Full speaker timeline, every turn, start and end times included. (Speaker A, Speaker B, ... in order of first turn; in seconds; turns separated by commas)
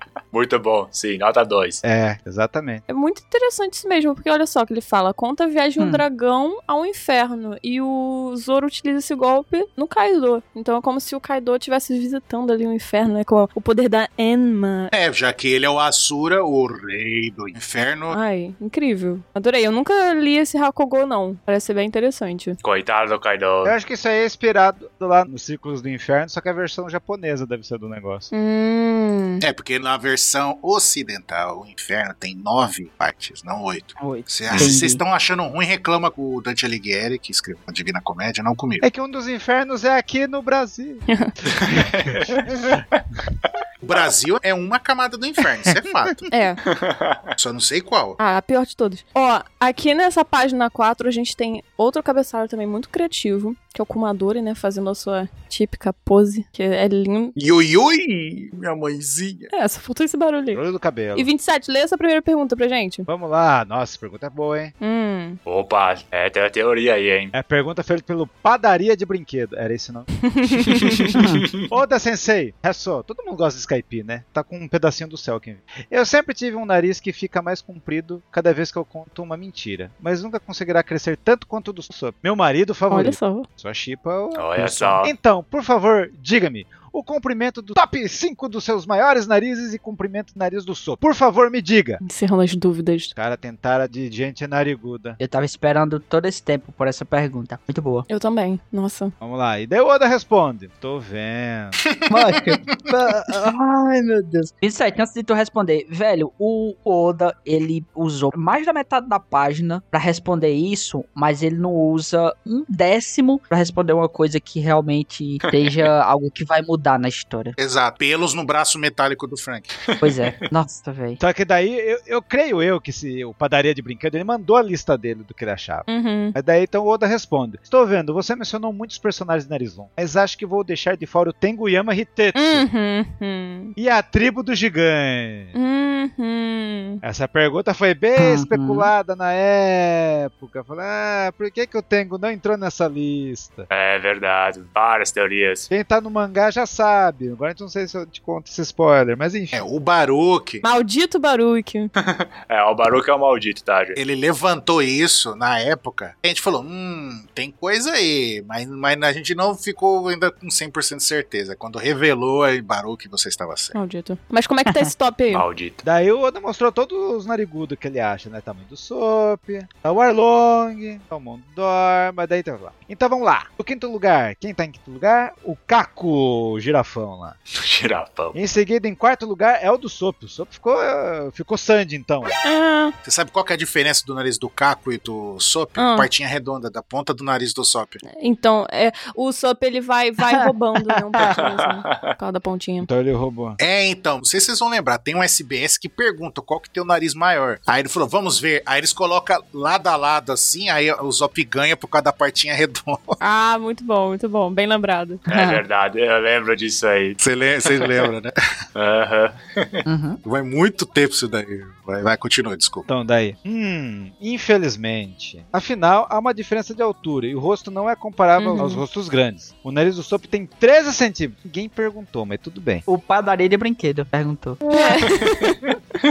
Speaker A: 0.3-1.8, Speaker B: 1.8-2.8, Speaker C: 2.9-14.9, Speaker D: 5.8-6.0, Speaker E: 14.9-18.2, Speaker C: 18.1-22.6, Speaker A: 22.6-23.7, Speaker B: 23.6-28.3, Speaker C: 28.3-29.4, Speaker E: 29.4-38.8, Speaker D: 34.0-35.0, Speaker B: 38.8-42.8, Speaker C: 41.1-41.3, Speaker A: 41.6-42.4, Speaker E: 43.8-46.2, Speaker C: 46.3-46.6, Speaker A: 46.6-47.3, Speaker E: 47.4-48.2, Speaker C: 48.2-57.3, Speaker E: 57.4-59.5, Speaker C: 59.5-63.1, Speaker B: 60.5-61.3, Speaker B: 63.1-64.7, Speaker C: 64.8-65.4, Speaker A: 65.5-67.3, Speaker B: 67.3-70.2, Speaker C: 70.2-71.1, Speaker A: 70.7-71.7, Speaker D: 71.2-71.4, Speaker B: 71.7-92.0, Speaker C: 82.9-83.5, Speaker A: 84.3-85.2, Speaker C: 92.0-93.1, Speaker B: 93.2-95.2, Speaker D: 95.2-98.0, Speaker C: 98.1-99.1, Speaker B: 99.2-101.8, Speaker E: 101.8-102.1, Speaker D: 102.1-117.5, Speaker A: 115.5-115.8, Speaker E: 117.6-119.7, Speaker D: 120.0-121.2, Speaker B: 121.2-132.6, Speaker C: 125.9-126.3, Speaker C: 132.3-133.7, Speaker B: 133.8-135.5, Speaker C: 135.5-137.0, Speaker B: 137.0-143.7, Speaker D: 138.2-138.9, Speaker A: 143.7-145.7, Speaker B: 145.7-149.6, Speaker E: 149.5-150.6, Speaker C: 150.6-151.9, Speaker A: 152.0-154.0, Speaker E: 154.0-163.7, Speaker C: 163.7-165.4, Speaker A: 165.3-165.8, Speaker B: 165.8-177.4, Speaker A: 177.5-178.4, Speaker B: 178.3-182.3, Speaker C: 182.4-182.9, Speaker E: 183.0-188.0, Speaker C: 185.8-186.1, Speaker C: 188.2-192.9, Speaker B: 190.9-191.3, Speaker A: 191.2-192.1, Speaker B: 192.8-193.6, Speaker E: 193.6-203.1, Speaker C: 203.2-205.5, Speaker A: 205.3-207.2, Speaker E: 207.2-208.3, Speaker A: 208.8-209.8, Speaker D: 209.8-210.2, Speaker E: 210.2-212.8, Speaker B: 212.9-222.8, Speaker C: 218.4-218.8, Speaker D: 222.8-225.2, Speaker C: 224.7-225.6